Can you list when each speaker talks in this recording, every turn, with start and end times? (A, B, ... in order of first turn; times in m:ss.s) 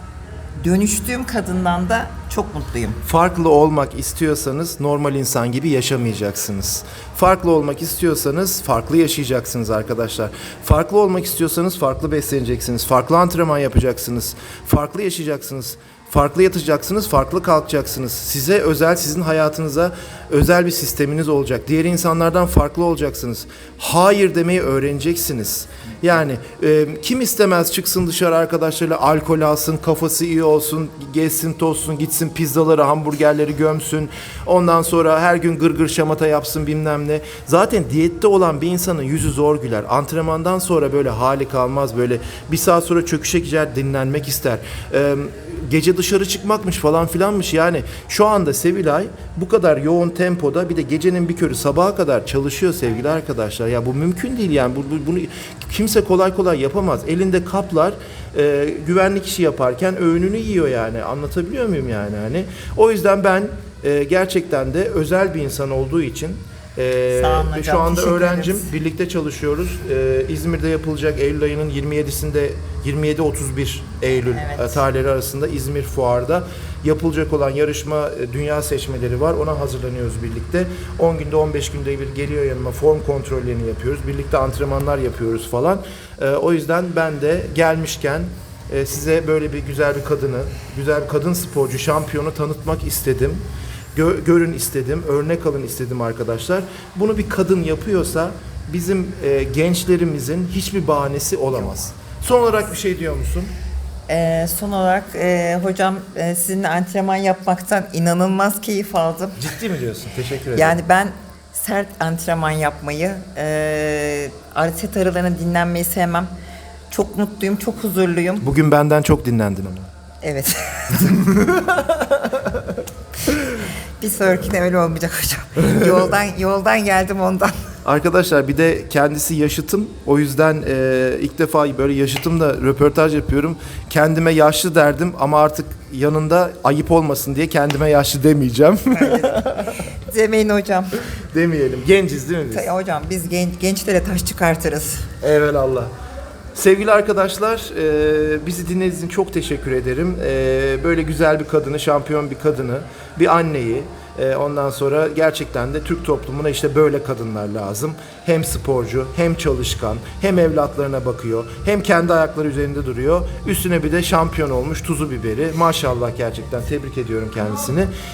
0:00.6-0:03.0 A
0:03.0-1:33.4 B
1:07.1-1:08.7 A
1:14.3-1:14.8 A
1:34.0-1:43.5 B
1:44.1-1:49.5 A
1:49.4-1:50.8 B
1:50.5-1:56.3 A
1:56.9-1:58.5 A
1:58.4-1:59.9 B
2:00.2-2:01.8 A
2:01.3-2:01.8 B
2:04.0-2:07.6 A
2:07.8-2:19.8 B
2:18.9-2:21.0 A
2:21.3-2:22.7 B
2:22.5-2:25.1 A
2:25.2-2:25.9 B
2:26.6-2:47.9 B